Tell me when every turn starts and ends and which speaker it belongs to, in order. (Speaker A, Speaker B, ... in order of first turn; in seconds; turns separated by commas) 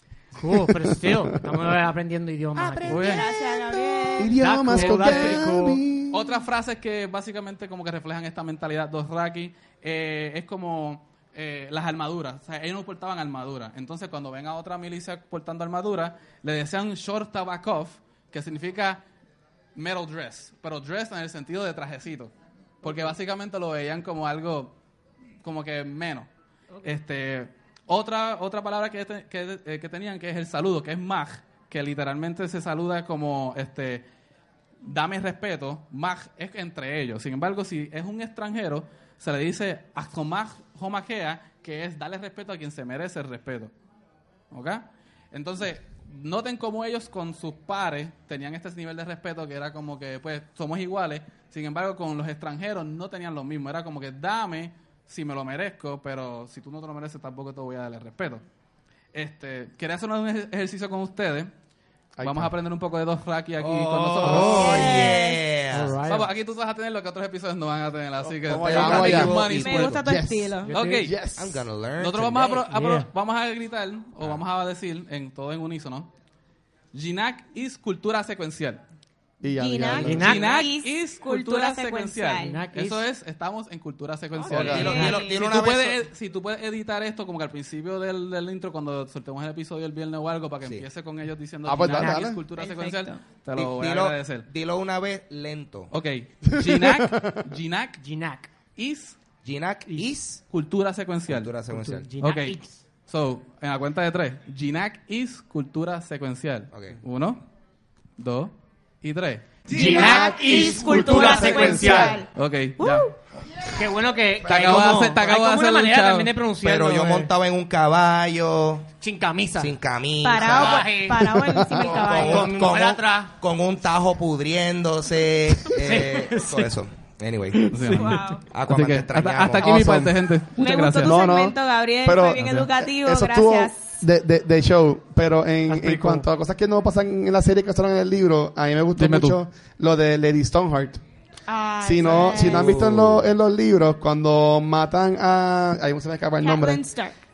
Speaker A: 0.3-3.2, Speaker B: 0.5-1.6, Speaker C: 2.6-3.2, Speaker D: 2.9-3.3, Speaker E: 2.9-4.4, Speaker B: 4.2-6.3, Speaker A: 4.3-5.8, Speaker D: 4.8-5.4, Speaker D: 6.1-19.0, Speaker D: 19.7-24.7, Speaker D: 25.4-26.3, Speaker D: 26.8-34.0, Speaker D: 34.8-43.7, Speaker D: 44.5-58.4, Speaker D: 59.1-61.5, Speaker B: 62.2-62.5, Speaker D: 62.2-65.0, Speaker C: 63.6-66.0, Speaker A: 64.2-64.7, Speaker E: 64.3-65.4, Speaker A: 65.7-66.3, Speaker D: 66.1-70.0, Speaker B: 68.4-69.4, Speaker C: 68.5-70.1, Speaker E: 69.5-70.7, Speaker B: 70.0-71.7, Speaker D: 70.7-71.1, Speaker C: 71.3-72.6, Speaker D: 72.0-76.1, Speaker A: 72.7-73.1, Speaker D: 76.9-78.8, Speaker B: 79.4-80.3, Speaker E: 79.6-82.6, Speaker A: 80.0-80.5, Speaker D: 80.0-94.5, Speaker A: 82.4-83.0, Speaker E: 84.3-85.4, Speaker B: 84.5-84.9, Speaker C: 84.5-86.0, Speaker B: 91.6-92.4, Speaker A: 91.9-92.2, Speaker E: 92.5-93.2, Speaker C: 93.5-95.9, Speaker D: 95.9-98.0, Speaker B: 96.5-97.5, Speaker A: 98.0-98.5, Speaker D: 98.8-99.2, Speaker C: 99.4-100.4, Speaker D: 100.5-101.5, Speaker C: 101.3-102.1, Speaker A: 101.7-102.8, Speaker D: 102.2-107.4, Speaker C: 106.7-107.0, Speaker D: 108.2-108.5, Speaker D: 109.0-109.6, Speaker A: 109.7-112.2, Speaker E: 109.7-112.3, Speaker B: 110.0-112.2, Speaker D: 112.3-113.1, Speaker A: 113.7-117.3, Speaker C: 114.5-115.0, Speaker D: 114.5-116.3, Speaker C: 116.6-118.9, Speaker A: 119.0-119.8, Speaker C: 119.6-121.0, Speaker E: 120.2-122.5, Speaker A: 120.4-121.3, Speaker B: 121.4-121.9, Speaker C: 121.9-127.7, Speaker A: 122.0-123.3, Speaker A: 125.7-126.7, Speaker A: 127.5-128.3, Speaker D: 127.7-131.2, Speaker E: 127.9-128.4, Speaker C: 128.5-129.8, Speaker B: 129.6-130.2, Speaker E: 130.6-134.0, Speaker B: 131.0-141.0, Speaker D: 132.4-132.7, Speaker A: 135.7-136.2, Speaker D: 138.9-139.4, Speaker E: 141.5-142.7, Speaker B: 141.8-146.8, Speaker C: 142.3-143.3, Speaker E: 146.4-147.2